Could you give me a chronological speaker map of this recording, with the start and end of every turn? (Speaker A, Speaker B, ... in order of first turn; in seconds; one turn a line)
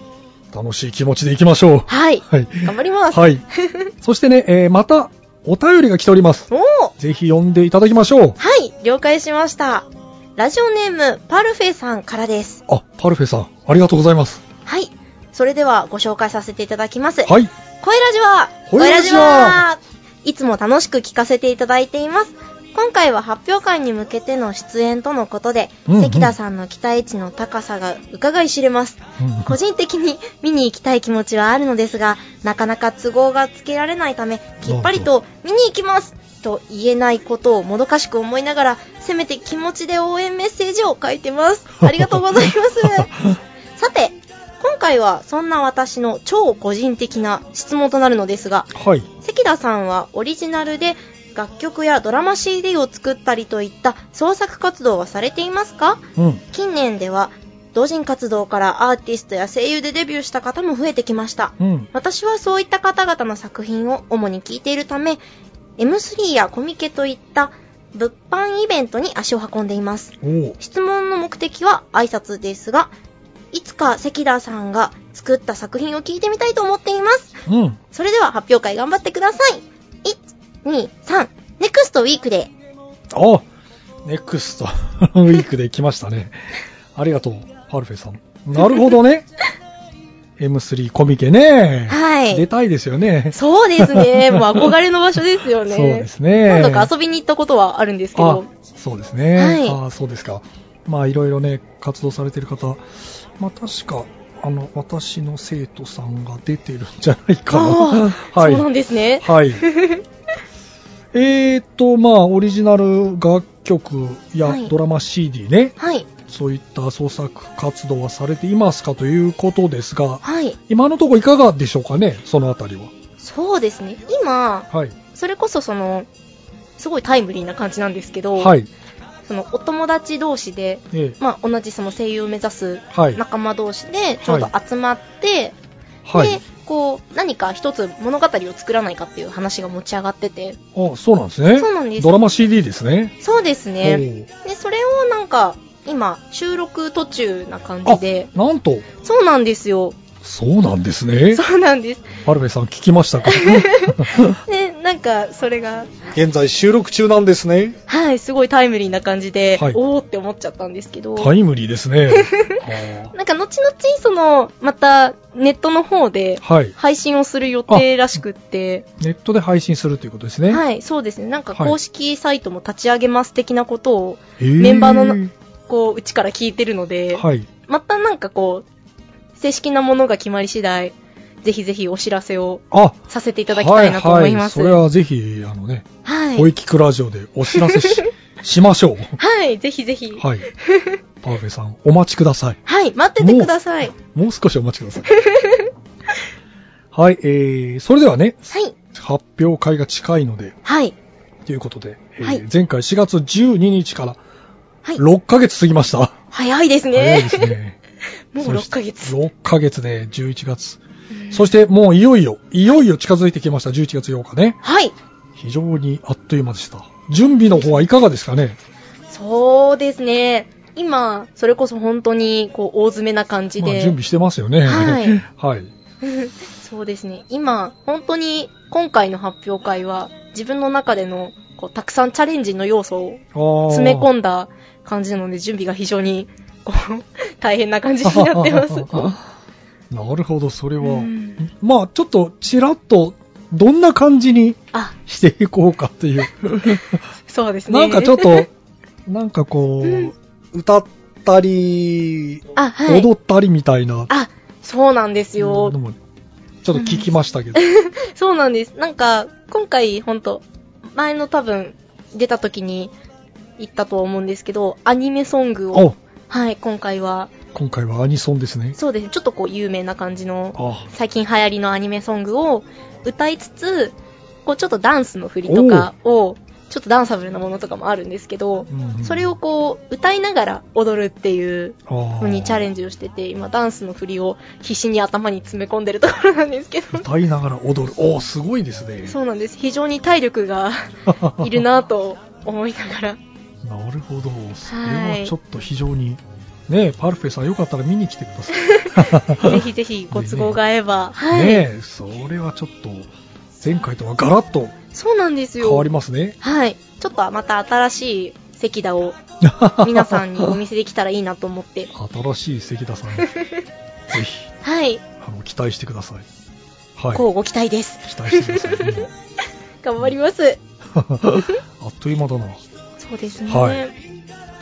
Speaker A: 0.5-3.4
Speaker B: 1.9-3.9
Speaker A: 4.0-8.4
Speaker B: 6.5-6.9
Speaker B: 8.4-12.6
Speaker A: 12.7-14.4
Speaker B: 14.7-43.2
Speaker A: 17.2-17.5
Speaker A: 18.7-19.6
Speaker A: 25.9-26.3
Speaker A: 29.2-29.6
Speaker A: 34.7-35.1
Speaker B: 43.8-65.2
Speaker A: 48.7-49.1
Speaker A: 56.2-56.4
Speaker A: 61.6-61.9
Speaker B: 65.8-72.9
Speaker A: 70.2-70.6
Speaker B: 73.5-77.4
Speaker A: 77.5-77.8
Speaker B: 77.9-82.5
Speaker A: 83.1-83.5
Speaker A: 84.0-86.4
Speaker A: 87.0-89.3
Speaker A: 90.4-94.6
Speaker B: 91.9-92.5
Speaker B: 93.3-98.5
Speaker A: 95.7-96.9
Speaker A: 98.2-102.8
Speaker B: 99.3-99.8
Speaker A: 103.4-108.7
Speaker B: 107.5-110.0
Speaker A: 109.2-109.6
Speaker A: 111.1-122.9
Speaker B: 114.4-114.7
Speaker B: 115.8-116.1
Speaker B: 120.2-120.6
Speaker B: 123.2-126.1
Speaker A: 124.7-125.0
Speaker B: 126.8-128.6
Speaker A: 128.4-128.7
Speaker B: 129.3-135.6
Speaker A: 130.9-131.2
Speaker A: 132.9-133.2
Speaker A: 134.2-134.5
Speaker A: 136.1-136.4
Speaker B: 136.1-140.6
Speaker A: 140.8-143.2
Speaker B: 141.6-142.2
Speaker B: 143.2-148.3
Speaker A: 143.8-144.3
Speaker A: 147.8-148.9
Speaker B: 149.0-150.0
Speaker A: 150.2-151.4
Speaker B: 151.3-152.2
Speaker A: 152.2-154.4
Speaker B: 153.2-155.9
Speaker A: 156.1-157.8
Speaker B: 157.9-161.3
Speaker A: 161.2-163.1
Speaker B: 162.1-162.6
Speaker B: 163.1-168.9
Speaker A: 166.4-166.8
Speaker A: 167.7-168.0
Speaker A: 169.0-170.6
Speaker B: 170.5-178.7
Speaker A: 174.4-175.3
Speaker A: 177.1-177.5
Speaker B: 179.4-184.8
Speaker A: 182.7-189.2
Speaker B: 186.0-186.5
Speaker B: 187.5-188.1
Speaker B: 189.2-191.0
Speaker A: 190.2-190.5
Speaker A: 191.2-192.6
Speaker B: 192.7-194.0
Speaker A: 193.2-195.1
Speaker B: 195.2-195.7
Speaker A: 196.9-200.6
Speaker B: 198.5-198.8
Speaker B: 200.7-200.9
Speaker A: 201.5-204.2
Speaker A: 205.0-206.2
Speaker B: 206.3-207.5
Speaker A: 206.9-207.8
Speaker B: 208.3-209.1
Speaker A: 208.4-210.8
Speaker B: 211.1-211.5
Speaker A: 211.3-214.6
Speaker B: 214.6-214.9
Speaker A: 215.4-218.6
Speaker B: 219.1-224.0
Speaker A: 223.6-225.7
Speaker B: 224.6-225.2
Speaker B: 226.0-239.1
Speaker A: 233.3-234.1
Speaker A: 238.0-239.2
Speaker A: 239.9-247.0
Speaker B: 240.8-241.4
Speaker B: 247.3-248.5
Speaker A: 247.7-248.5
Speaker A: 249.1-254.1
Speaker B: 249.8-250.1
Speaker B: 252.6-253.1
Speaker B: 254.1-255.8
Speaker A: 255.4-256.0
Speaker A: 256.6-257.6
Speaker B: 256.7-262.9
Speaker B: 263.6-267.3
Speaker A: 267.5-268.8
Speaker B: 268.8-287.0
Speaker A: 270.6-270.9
Speaker A: 275.5-275.9
Speaker A: 278.7-279.3
Speaker A: 281.9-282.7
Speaker A: 286.9-289.2
Speaker B: 289.1-293.2
Speaker A: 291.1-291.6
Speaker A: 293.6-300.6
Speaker B: 294.7-295.3
Speaker B: 298.5-301.7
Speaker A: 301.3-304.8
Speaker B: 304.9-305.9
Speaker A: 305.6-306.4
Speaker B: 306.4-309.2
Speaker A: 309.4-310.6
Speaker B: 309.8-311.9
Speaker A: 311.9-313.3
Speaker B: 313.2-313.6
Speaker A: 314.1-314.5
Speaker B: 314.6-315.0
Speaker A: 315.2-316.3
Speaker A: 317.0-317.3
Speaker B: 317.1-319.1
Speaker A: 318.0-319.1
Speaker B: 319.8-320.6
Speaker A: 321.0-322.6
Speaker B: 323.0-323.9
Speaker A: 323.5-323.9